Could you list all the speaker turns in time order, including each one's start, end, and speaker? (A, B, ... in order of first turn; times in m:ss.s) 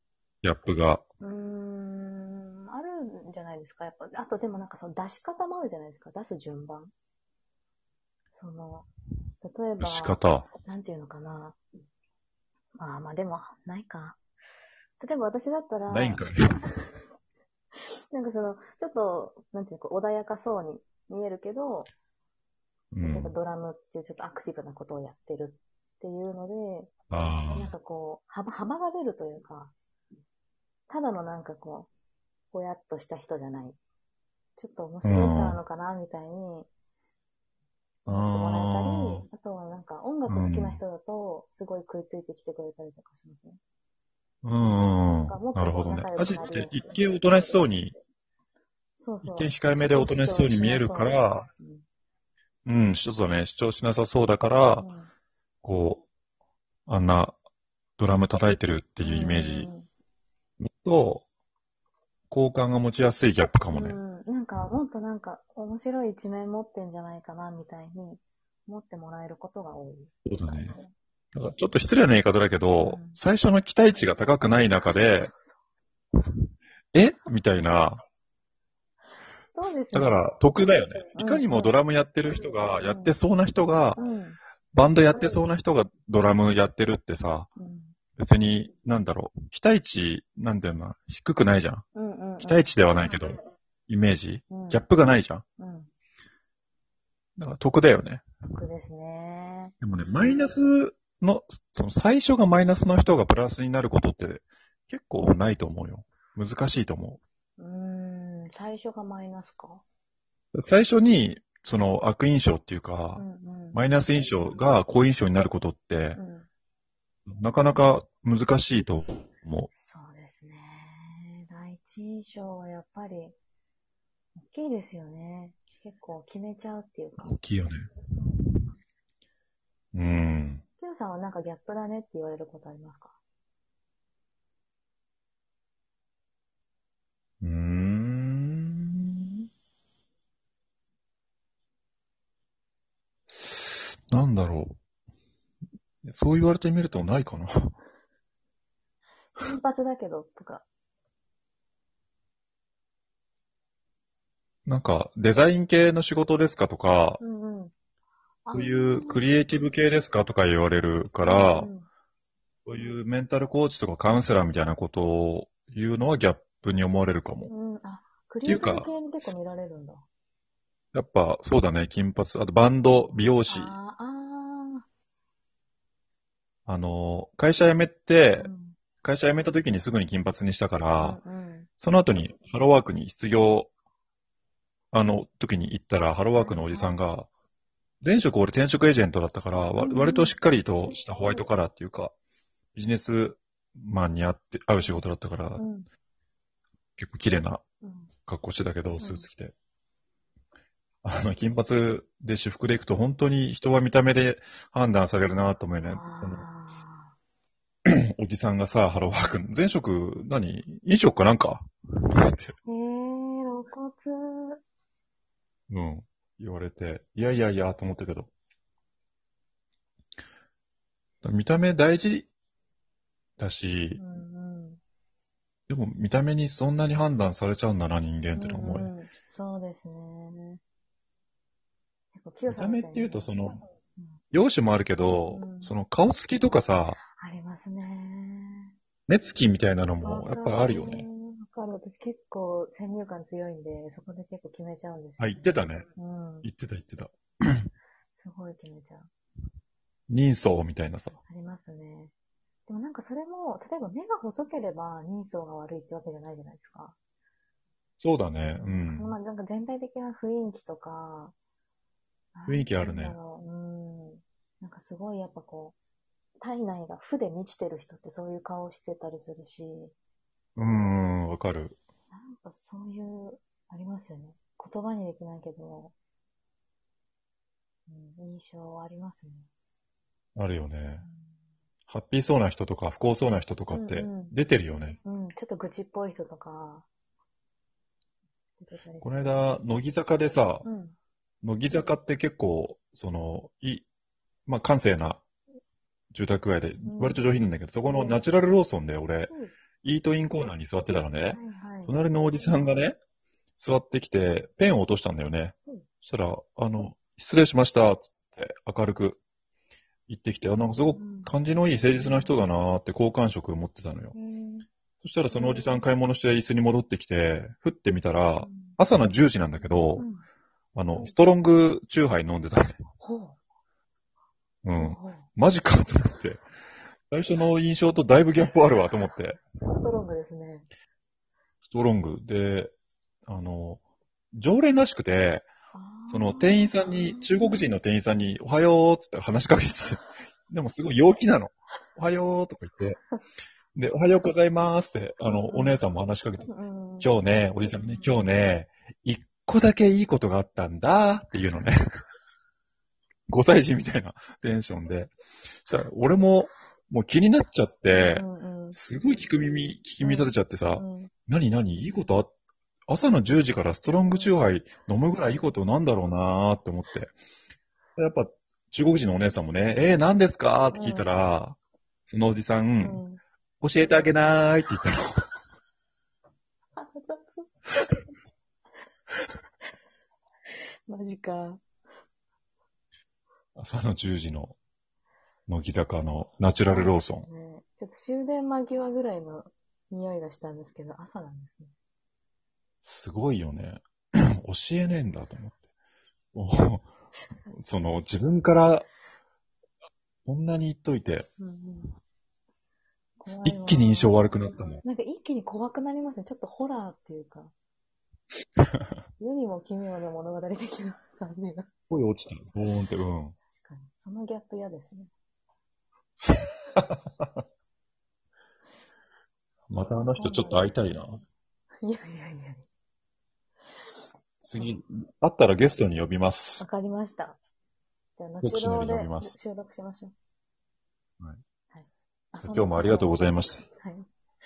0:00.4-0:01.0 A
0:01.2-0:06.9 B
0:08.3-0:08.9 B
0:09.4-0:11.6 B
0:09.8-0:10.5 A
0:12.8-0:14.2 B
0:15.0-0:16.8 B
0:15.9-0:16.6 A
0:18.1-0:21.9 B
0:22.9-0:23.3 A
0:23.0-0:29.7 B
0:27.1-0:27.7 A
0:30.9-0:31.9 B
0:32.5-0:33.8 B
0:34.6-0:36.7 B
0:35.0-0:35.6 A
0:38.0-0:39.3 A
0:38.1-0:43.6 B
0:40.3-0:40.8 A
0:44.4-0:48.0 A
0:45.2-0:46.9 B
0:49.0-0:51.8 B
0:49.2-0:51.5 A
0:52.6-0:54.9 A
0:54.8-0:55.1 B
0:55.6-0:56.0 A
0:56.9-0:57.4 A
0:58.0-0:59.7 A
0:59.0-0:59.9 B
1:00.6-1:01.2 A
1:02.3-1:04.0 A
1:03.7-1:10.9 B
1:10.2-1:10.8 A
1:11.3-1:15.3 A
1:12.8-1:13.2 B
1:14.6-1:15.6 B
1:16.9-1:18.0 A
1:19.5-1:20.2 B
1:19.6-1:24.0 A
1:20.9-1:21.8 B
1:22.8-1:23.1 B
1:24.0-1:24.4 B
1:24.7-1:27.5 A
1:27.6-1:28.0 B
1:28.2-1:31.8 A
1:31.9-1:32.6 B
1:32.4-1:35.4 A
1:34.5-1:34.8 B
1:35.6-1:35.9 B
1:37.4-1:38.2 A
1:38.5-1:39.7 B
1:39.8-1:47.2 A
1:47.6-1:49.8 B
1:50.5-1:56.2 A
1:53.2-1:53.8 B
1:56.1-1:56.5 B
1:57.3-1:59.7 A
1:59.8-2:03.4 B
2:04.4-2:07.4 B
2:07.2-2:07.9 A
2:09.9-2:10.6 A
2:10.8-2:13.2 B
2:17.4-2:19.4 A
2:24.1-2:24.8 A
2:26.0-2:27.5 A
2:29.4-2:30.6 B
2:34.6-2:37.2 A
2:37.2-2:37.7 B
2:38.4-2:39.2 B
2:38.5-2:41.7 A
2:41.2-2:41.9 B
2:42.6-2:47.5 A
2:47.5-2:50.0 B
2:48.4-2:48.9 A
2:50.9-2:53.7 A
2:52.9-2:54.8 B
2:56.6-2:58.5 A
2:58.4-2:58.8 B
2:59.0-3:01.2 A
3:01.0-3:01.7 B
3:01.8-3:03.7 A
3:04.9-3:07.3 A
3:06.3-3:07.0 B
3:08.0-3:12.1 A
3:09.8-3:10.4 B
3:12.7-3:15.6 A
3:15.6-3:15.9 B
3:17.0-3:17.6 A
3:17.8-3:18.1 B
3:18.2-3:19.6 A
3:19.0-3:19.3 B
3:21.0-3:26.4 A
3:25.8-3:27.1 B
3:27.8-3:32.5 A
3:29.0-3:29.3 B
3:32.6-3:34.6 B
3:35.7-3:38.3 A
3:41.2-3:42.3 A
3:43.4-3:44.0 A
3:44.0-3:44.8 B
3:45.7-3:48.9 A
3:48.3-3:50.6 B
3:52.1-3:54.2 B
3:52.5-3:53.6 A
3:54.3-3:57.0 A
3:55.2-3:55.7 B
3:57.1-3:58.7 B
3:59.1-4:01.1 A
4:00.0-4:06.5 B
4:05.2-4:05.8 A
4:06.4-4:07.7 A
4:08.2-4:09.1 B
4:10.1-4:11.2 A
4:11.3-4:12.1 B
4:12.7-4:17.0 B
4:18.0-4:19.2 A
4:18.6-4:21.3 B
4:22.3-4:25.8 B
4:22.5-4:23.2 A
4:26.4-4:29.9 B
4:30.6-4:31.8 A
4:32.1-4:35.9 B
4:37.9-4:39.5 B
4:40.4-4:41.0 A
4:41.0-4:41.3 B
4:41.9-4:45.0 A
4:43.7-4:44.4 B
4:45.0-4:46.9 B
4:48.6-4:49.5 B
4:49.0-4:50.6 A
4:50.6-4:51.0 B
4:51.4-4:53.9 A
4:54.4-4:55.2 A
4:56.1-5:03.0 A
4:56.8-4:57.3 B
4:57.8-4:58.2 B
4:59.3-4:59.6 B
5:01.3-5:02.0 B
5:03.6-5:09.2 A
5:10.1-5:14.1 A
5:10.6-5:12.4 B
5:14.1-5:14.7 B
5:15.0-5:20.0 A
5:15.3-5:15.8 B
5:18.4-5:18.8 B
5:20.0-5:20.2 B
5:20.7-5:22.8 A
5:23.0-5:23.4 B
5:24.6-5:26.4 A
5:24.8-5:25.3 B
5:27.1-5:29.4 A
5:29.7-5:30.7 B
5:31.6-5:32.7 A
5:33.2-5:33.8 A
5:34.3-5:35.5 A
5:35.7-5:37.7 B
5:36.0-5:43.0 A
5:43.7-5:46.5 A
5:45.2-5:45.8 B
5:46.4-5:48.1 B
5:47.0-5:51.8 A
5:53.3-5:55.1 A
5:55.6-6:02.3 A
5:57.9-5:58.8 B
6:00.0-6:01.1 B
6:02.9-6:07.1 A
6:04.0-6:04.3 B
6:08.0-6:13.0 A
6:10.7-6:11.2 B
6:12.8-6:13.2 B
6:13.6-6:15.0 A
6:16.8-6:18.0 B
6:20.9-6:21.6 B
6:23.6-6:24.6 A
6:25.5-6:27.3 A
6:26.7-6:31.7 B
6:32.8-6:35.6 A
6:36.3-6:36.9 A
6:37.5-6:38.9 A
6:40.2-6:41.3 A
6:41.4-6:41.9 B
6:43.2-6:47.5 B
6:43.3-6:44.8 A
6:49.2-6:51.7 B
6:51.9-6:53.4 A
6:53.5-6:55.1 B
6:56.2-6:57.4 A
6:59.7-7:01.2 A
7:00.2-7:00.8 B
7:01.8-7:02.7 B
7:04.4-7:06.6 A
7:06.6-7:07.4 B
7:08.2-7:10.1 B
7:08.4-7:09.4 A
7:11.7-7:14.1 B
7:12.4-7:13.6 A